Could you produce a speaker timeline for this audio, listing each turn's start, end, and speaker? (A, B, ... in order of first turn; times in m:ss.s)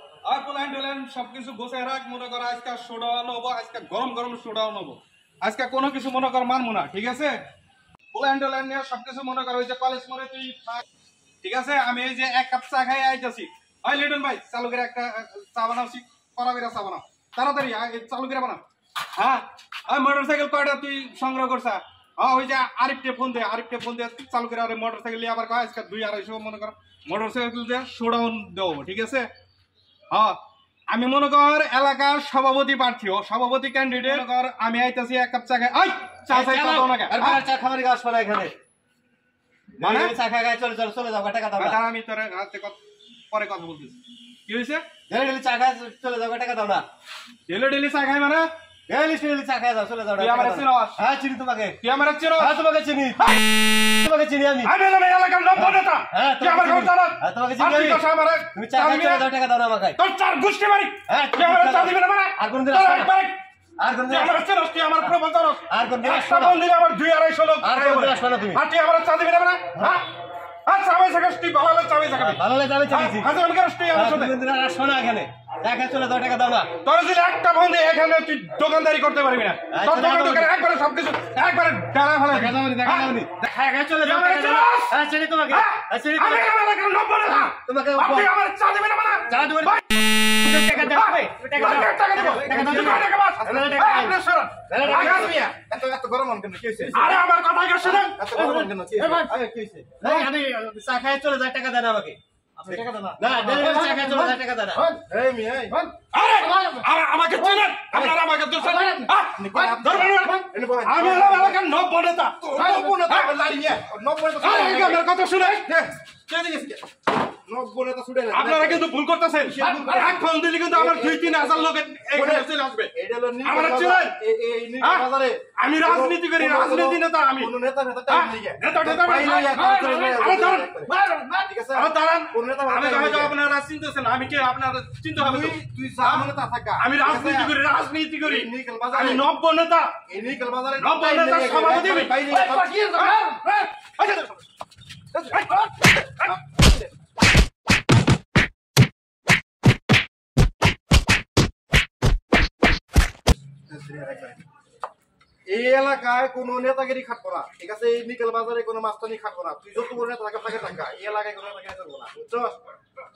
0:00.2-0:07.4 A
0:08.1-0:10.8 A
0:11.4-0:18.6 A
0:19.1-0:29.3 A
0:30.1-0:30.4 A
0:30.9-0:37.4 A
0:36.3-0:38.5 B
0:39.8-0:41.8 B
0:39.8-0:40.1 A
0:41.6-0:42.8 A
0:43.3-0:44.8 A
0:45.1-0:46.8 B
0:47.5-0:48.5 A
0:48.9-0:51.8 B
0:50.2-0:51.0 A
0:51.8-0:52.6 A
0:52.4-0:53.4 B
0:54.0-0:54.7 B
0:54.6-0:59.3 A
0:55.6-1:00.0 B
1:00.0-1:03.4 A
1:01.1-1:03.1 B
1:03.8-1:04.4 B
1:04.1-1:10.1 A
1:05.7-1:06.6 B
1:07.6-1:08.6 B
1:09.7-1:10.0 B
1:10.6-1:14.3 A
1:12.1-1:13.4 B
1:13.9-1:16.7 B
1:16.8-1:23.5 A
1:19.7-1:20.5 B
1:22.3-1:26.5 B
1:24.0-1:25.0 A
1:25.5-1:29.8 A
1:27.2-1:28.3 B
1:29.3-1:29.8 B
1:30.4-1:35.3 B
1:30.5-1:35.5 A
1:32.3-1:32.8 C
1:34.8-1:37.1 C
1:36.9-1:38.3 A
1:38.0-1:40.0 C
1:38.3-1:42.2 B
1:42.6-1:45.9 C
1:43.2-1:44.9 B
1:46.1-1:53.3 A
1:49.3-1:51.6 C
1:52.5-1:55.0 C
1:54.4-1:55.7 A
1:55.6-1:56.8 C
1:57.4-1:58.9 C
1:58.3-2:04.2 A
1:59.4-2:13.4 C
2:04.8-2:07.5 A
2:08.1-2:20.0 A
2:15.2-2:17.6 C
2:18.2-2:19.2 C
2:20.0-2:23.6 C
2:20.8-2:23.4 A
2:24.0-2:24.4 A
2:25.2-2:26.4 A
2:33.7-2:34.4 C
2:35.4-2:42.6 C